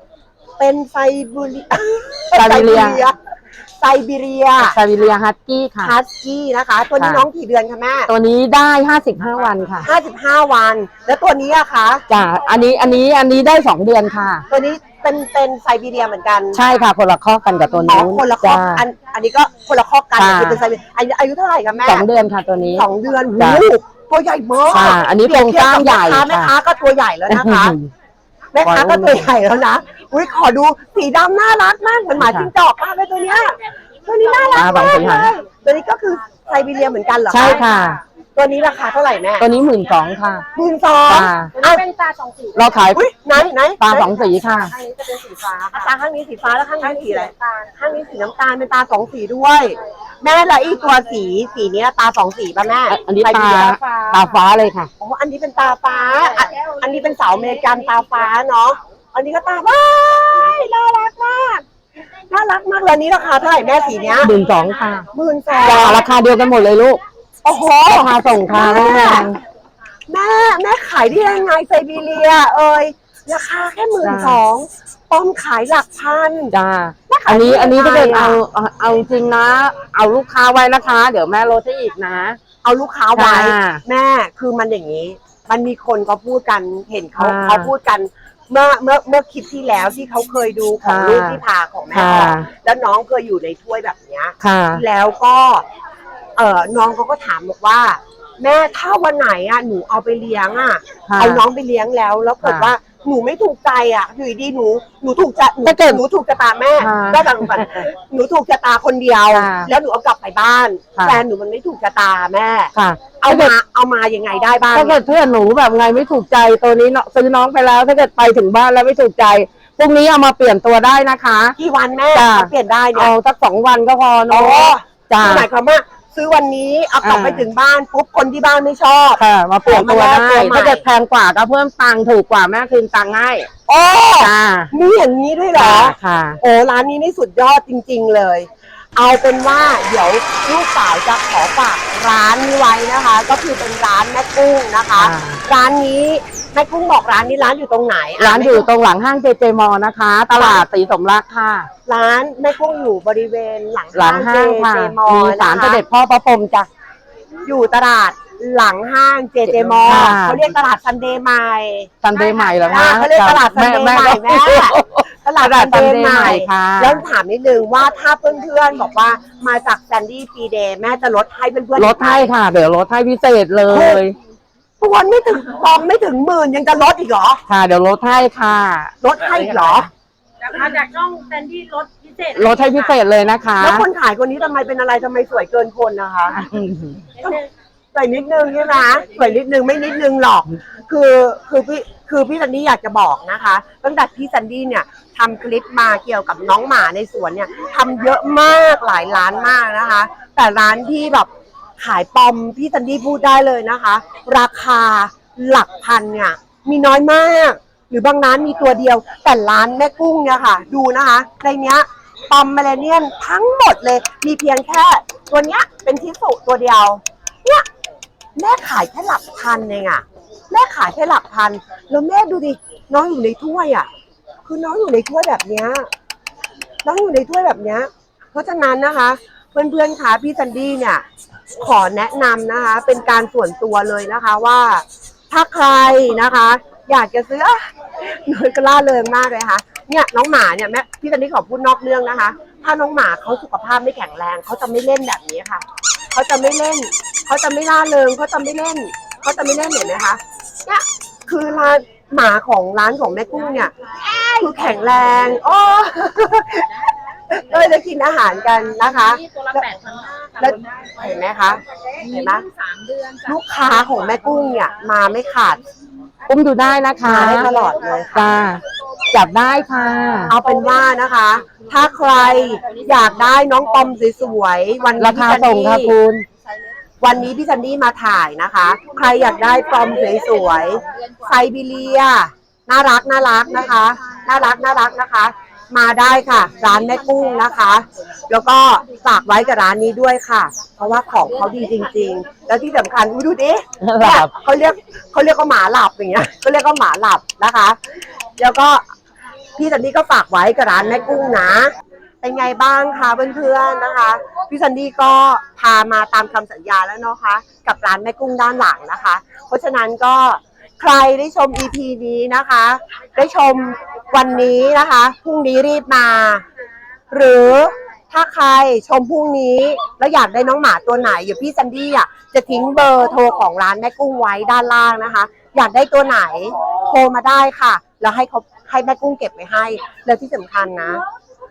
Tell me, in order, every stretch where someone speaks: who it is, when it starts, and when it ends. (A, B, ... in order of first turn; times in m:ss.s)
0:00.6-0:03.2 A
0:02.3-0:03.0 B
0:03.8-0:04.8 A
0:04.6-0:05.9 B
0:05.8-0:08.1 A
0:07.0-0:07.2 B
0:08.1-0:09.9 B
0:09.8-0:12.0 A
0:12.1-0:14.4 B
0:14.5-0:16.6 A
0:16.5-0:18.8 B
0:17.9-0:22.0 A
0:20.2-0:20.6 B
0:21.8-0:22.8 B
0:22.7-0:27.8 A
0:23.4-0:23.6 B
0:24.7-0:26.5 B
0:27.3-0:27.9 B
0:28.5-0:37.6 A
0:28.6-0:29.3 B
0:32.2-0:32.5 B
0:34.5-0:35.3 B
0:37.3-0:38.0 B
0:38.4-0:39.5 A
0:39.4-0:40.4 B
0:40.5-0:41.9 A
0:41.1-0:41.5 B
0:41.9-0:42.6 C
0:42.5-0:43.0 B
0:42.9-0:44.1 A
0:43.8-0:44.7 B
0:44.8-0:45.5 C
0:45.4-0:54.1 A
0:52.9-0:54.9 B
0:55.0-1:01.6 A
1:02.3-1:04.3 A
1:04.2-1:05.1 B
1:05.1-1:06.0 A
1:05.6-1:07.0 B
1:07.4-1:09.3 A
1:07.9-1:09.4 B
1:10.1-1:16.5 A
1:14.0-1:14.4 B
1:16.5-1:22.4 B
1:17.1-1:18.4 A
1:22.6-1:35.6 A
1:23.1-1:23.8 B
1:27.2-1:27.7 B
1:30.8-1:31.4 B
1:31.9-1:32.5 B
1:34.4-1:34.8 B
1:36.4-1:55.0 A
1:41.0-1:41.4 B
1:42.4-1:42.7 B
1:45.6-1:46.0 B
1:46.8-1:47.9 B
1:49.3-1:49.7 B
1:52.7-1:53.5 B
1:54.7-2:01.6 B
2:01.6-2:03.1 A
2:02.1-2:05.5 B
2:04.3-2:10.8 A
2:07.0-2:07.5 B
2:09.2-2:13.5 B
2:13.7-2:28.7 A
2:14.2-2:14.7 B
2:15.5-2:16.4 B
2:25.0-2:25.4 B
2:28.2-2:31.7 B
2:30.3-2:30.6 A
2:31.8-2:35.8 A
2:33.9-2:36.7 B
2:37.4-2:41.9 A
2:39.5-2:40.4 B
2:42.0-2:47.0 B
2:42.5-2:52.3 A
2:51.8-2:54.2 B
2:53.7-2:54.0 A
2:54.8-2:57.4 A
2:57.5-2:58.9 B
2:59.0-2:59.9 A
3:00.5-3:02.4 C
3:02.3-3:03.9 B
3:02.6-3:02.9 A
3:03.6-3:06.4 A
3:06.3-3:07.3 B
3:07.9-3:37.6 A
3:38.4-3:43.9 A
3:44.4-3:45.9 A
3:46.8-3:51.0 A
3:51.6-4:19.7 A
4:19.7-4:20.2 C
4:20.4-4:22.4 A
4:22.6-4:23.2 C
4:23.2-4:25.6 A
4:26.3-4:27.5 B
4:27.0-4:28.3 A
4:28.1-4:30.3 B
4:30.3-4:35.9 A
4:35.0-4:36.2 B
4:37.0-4:57.8 A
4:53.8-4:54.3 B
4:58.4-4:58.8 A
4:59.6-5:01.7 A
5:02.2-5:16.4 A
5:17.1-5:31.0 A